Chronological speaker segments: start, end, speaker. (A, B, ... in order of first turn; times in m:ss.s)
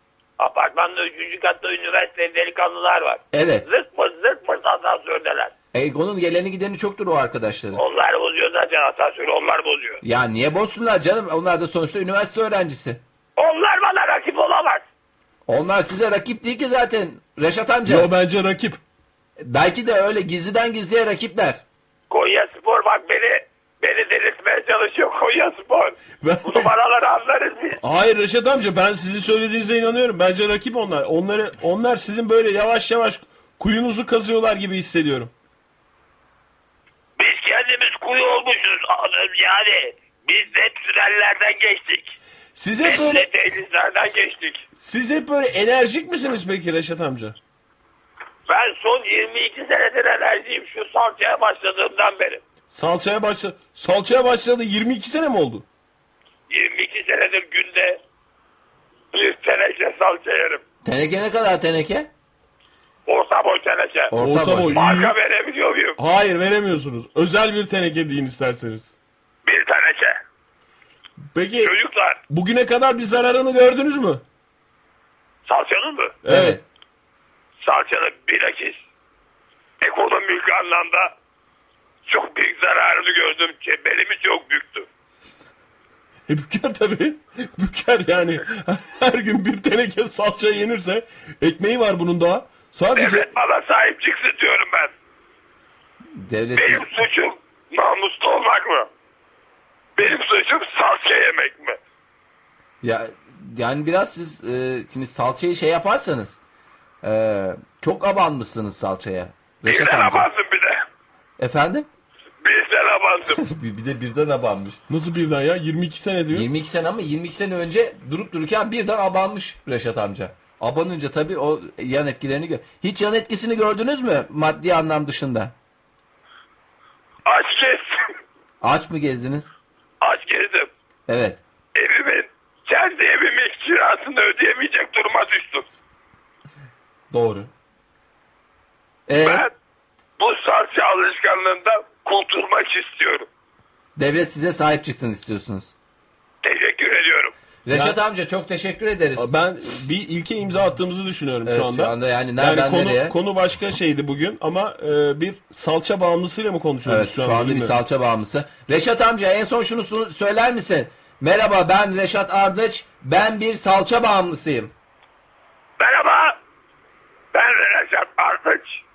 0:00.4-0:05.5 A
0:03.3-0:03.6 B
0:05.7-0:07.8 B
0:07.8-0:10.0 A
0:10.0-0:13.0 B
0:13.4-0:14.8 A
0:15.5-0:18.1 B
0:17.9-0:18.8 C
0:19.4-0:21.6 B
0:22.1-0:27.8 A
0:26.2-0:26.7 C
0:27.8-0:35.3 C
0:37.2-0:42.2 A
0:42.6-0:43.3 C
0:42.8-0:44.6 A
0:44.8-0:47.4 C
0:48.5-0:52.4 A
0:52.7-0:55.6 C
0:56.5-0:58.0 A
0:59.1-1:00.6 A
1:00.8-1:02.1 B
1:03.1-1:04.1 A
1:04.1-1:04.8 B
1:04.2-1:05.2 C
1:04.7-1:06.0 A
1:06.0-1:08.9 C
1:09.4-1:10.2 A
1:11.3-1:11.7 C
1:11.6-1:12.2 A
1:12.3-1:14.2 C
1:15.5-1:16.2 A
1:16.2-1:16.6 C
1:16.3-1:16.6 B
1:17.6-1:18.8 A
1:19.8-1:21.1 A
1:22.1-1:24.9 A
1:26.3-1:33.3 C
1:33.0-1:34.9 A
1:36.2-1:36.9 B
1:36.6-1:38.9 A
1:40.0-1:41.8 A
1:42.8-1:46.4 B
1:47.0-1:50.3 B
1:49.7-1:50.8 A
1:51.4-1:51.9 B
1:52.4-1:53.4 A
1:53.3-1:54.8 B
1:54.9-1:56.5 C
1:56.3-2:05.5 B
2:07.2-2:08.1 A
2:08.6-2:09.5 B
2:10.0-2:10.7 A
2:11.1-2:11.4 B
2:11.8-2:15.6 A
2:17.1-2:17.5 B
2:19.1-2:19.5 B
2:19.2-2:19.5 A
2:20.2-2:23.3 A
2:24.0-2:25.7 B
2:26.4-2:27.3 A
2:27.7-2:29.3 B
2:27.7-2:28.0 C
2:29.2-2:37.8 C
2:31.4-2:33.2 B
2:36.9-2:44.7 B
2:45.8-2:46.4 A
2:47.3-2:48.8 A